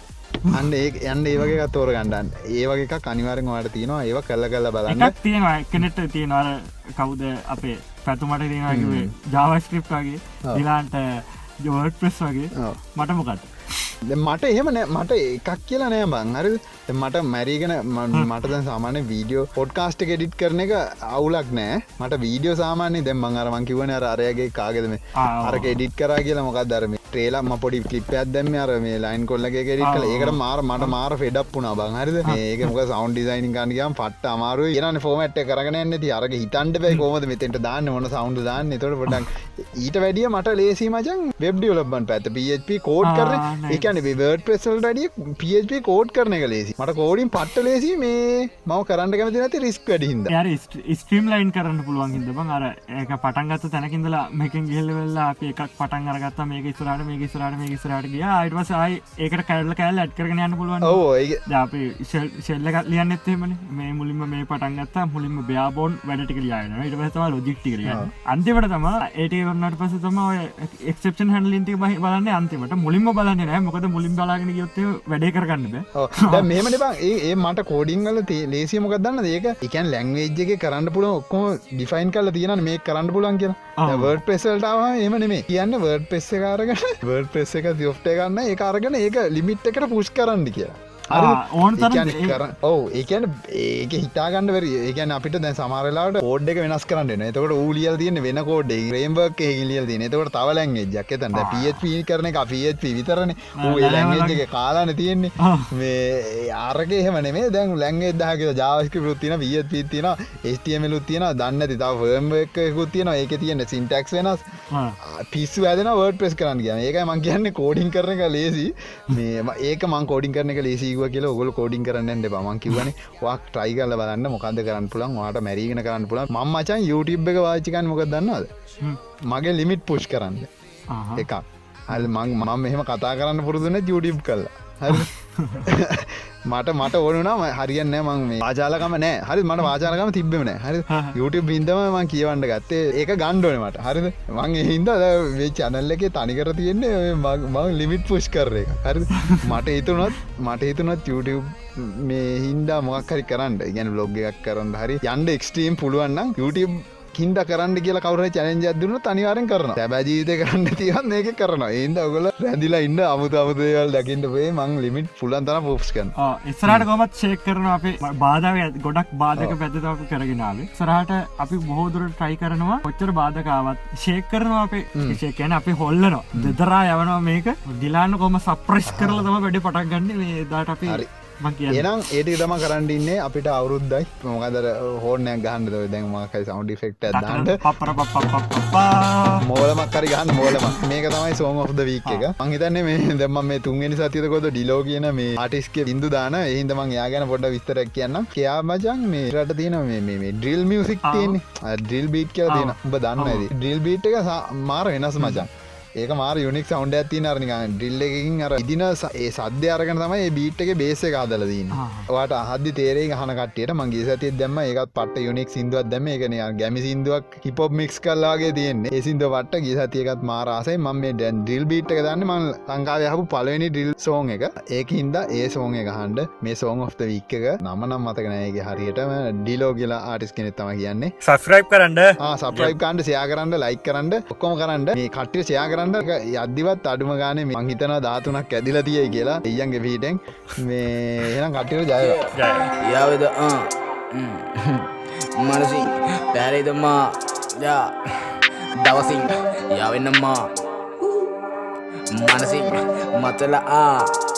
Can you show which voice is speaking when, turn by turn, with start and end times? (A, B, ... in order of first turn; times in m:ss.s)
0:00.5-0:05.1 A
0:04.9-0:13.9 B
0:08.7-0:09.1 A
0:12.5-0:12.8 A
0:14.1-0:50.3 A
0:25.2-0:25.8 B
0:29.8-0:30.9 B
0:43.0-0:43.9 B
0:50.3-1:16.6 B
1:00.8-1:01.4 A
1:07.8-1:08.1 A
1:15.9-1:54.4 A
1:23.8-1:24.1 B
1:31.1-1:32.4 B
1:41.3-1:41.8 B
1:43.6-1:44.4 B
1:45.4-1:45.7 B
1:55.0-2:08.5 A
2:09.3-2:10.5 A
2:10.9-2:11.3 B
2:11.2-2:15.1 A
2:14.9-2:15.7 B
2:15.6-2:46.1 A
2:20.9-2:21.2 B
2:46.2-3:01.9 B
2:54.9-2:55.2 A
2:58.8-2:59.3 A
3:01.7-3:07.6 A
3:07.1-3:09.4 B
3:09.4-3:51.1 A
3:10.4-3:10.7 B
3:21.0-3:21.4 B
3:22.5-3:23.5 B
3:31.7-3:32.1 B
3:51.2-3:52.8 B
3:52.2-4:02.2 A
4:02.0-4:10.6 C
4:02.3-4:02.7 B
4:12.1-4:14.2 C